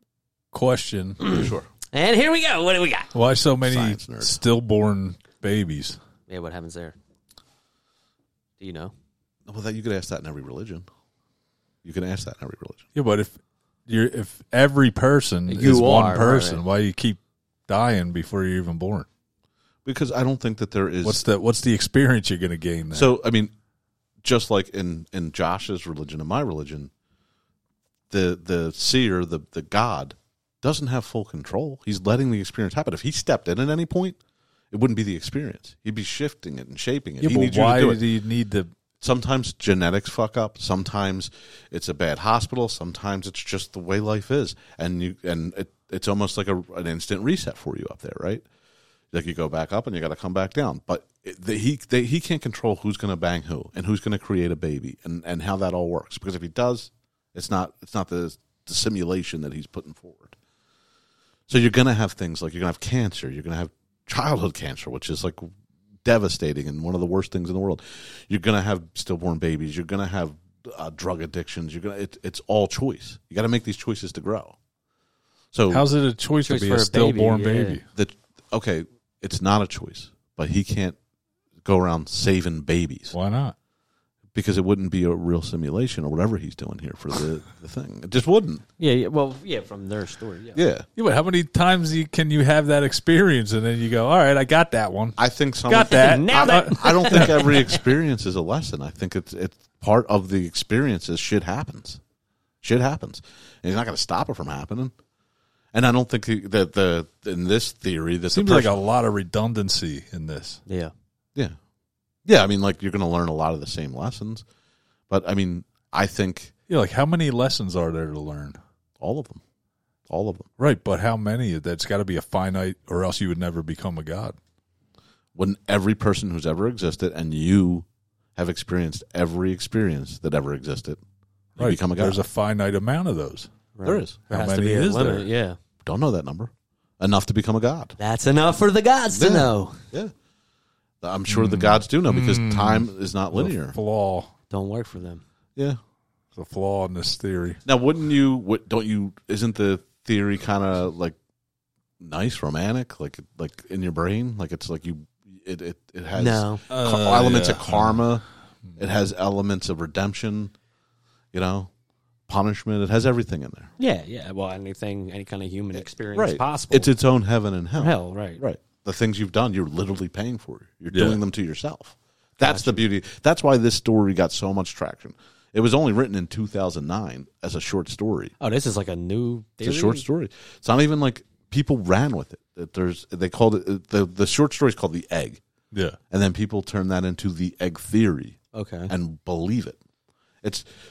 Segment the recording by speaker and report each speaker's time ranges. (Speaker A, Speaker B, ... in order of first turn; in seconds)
Speaker A: 0.5-1.2, 3.1-6.0, 12.9-13.3, 13.9-19.1, 21.0-23.1, 37.2-38.7, 75.7-77.8, 83.1-83.5, 91.0-97.6, 108.3-110.6, 116.7-118.6, 120.6-124.4, 131.6-133.5, 134.3-135.3, 141.3-144.3, 146.3-147.6, 156.7-158.0, 170.9-171.2, 185.7-186.0
Speaker B: 1.2-3.1, 6.3-7.0, 8.6-8.9, 15.5-16.6, 76.4-77.8, 88.8-90.6, 95.9-97.8, 110.7-110.9, 133.7-135.6, 138.0-139.8, 144.5-145.2, 156.2-156.6, 163.8-166.9, 167.8-168.4, 172.4-172.8, 178.4-180.0, 188.5-188.9
Speaker C: 1.2-1.7, 3.6-4.4, 9.5-10.8, 11.8-12.8, 19.8-21.2, 22.9-23.5, 24.2-26.9, 28.1-34.2, 34.7-38.0, 39.0-48.4, 49.1-60.3, 61.5-65.5, 66.0-74.5, 75.5-75.8, 77.9-81.0, 81.6-83.1, 84.3-88.6, 90.5-90.8, 95.2-102.0, 102.6-104.9, 105.7-108.8, 112.2-114.4, 115.1-116.5, 119.0-119.4, 120.1-120.5, 125.3-131.0, 131.6-132.2, 133.8-134.2, 135.8-137.9, 139.1-140.1, 141.0-143.8, 147.6-151.2, 152.0-158.2, 158.8-160.5, 161.3-161.7, 162.3-163.7, 165.7-178.3, 179.6-185.4, 186.1-188.4, 188.9-189.8